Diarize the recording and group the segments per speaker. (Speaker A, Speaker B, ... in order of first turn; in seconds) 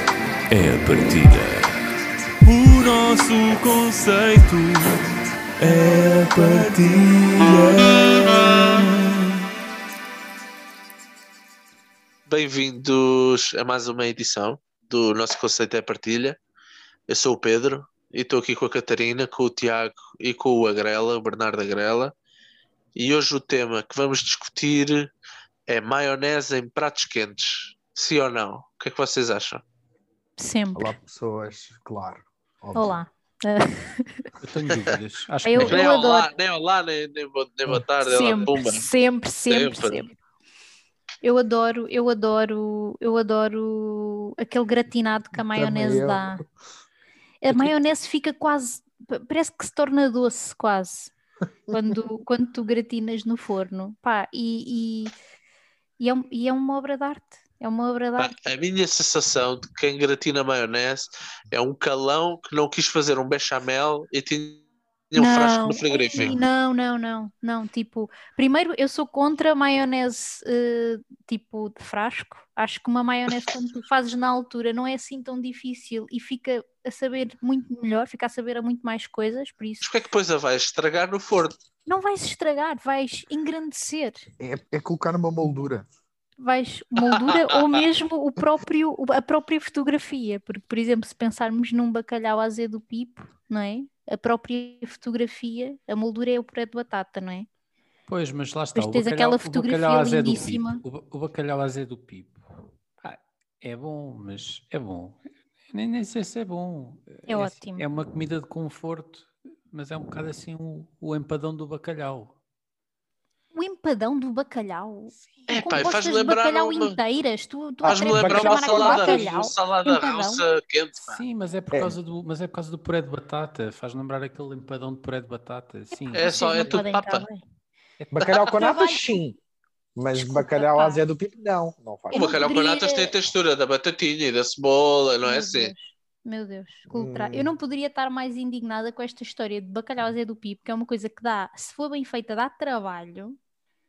Speaker A: 0.5-1.7, 2.4-5.0, 5.6-9.3
Speaker B: 12.3-16.4, 17.1-22.1, 22.9-25.1, 25.7-29.6, 35.6-38.9, 39.5-40.0, 58.2-66.4, 79.8-81.6, 115.5-117.0, 117.8-121.2, 126.1-127.2, 132.1-135.7
Speaker C: 30.4-30.9, 32.7-34.3, 35.4-36.3, 38.0-40.1, 41.2-46.4, 47.4-51.1, 51.7-55.1, 56.0-58.3, 65.1-79.9, 81.8-84.2, 86.4-97.5, 98.7-100.8, 107.3-107.8, 113.5-120.4, 126.1-127.4, 128.6-129.2, 130.1-131.0, 132.1-133.1, 135.2-143.4
Speaker D: 30.7-33.0, 45.3-46.4, 84.4-85.9, 117.8-119.2, 128.1-129.4, 129.9-132.4, 136.9-137.5
Speaker E: 34.4-35.8, 98.1-102.4, 103.0-112.3, 121.0-126.7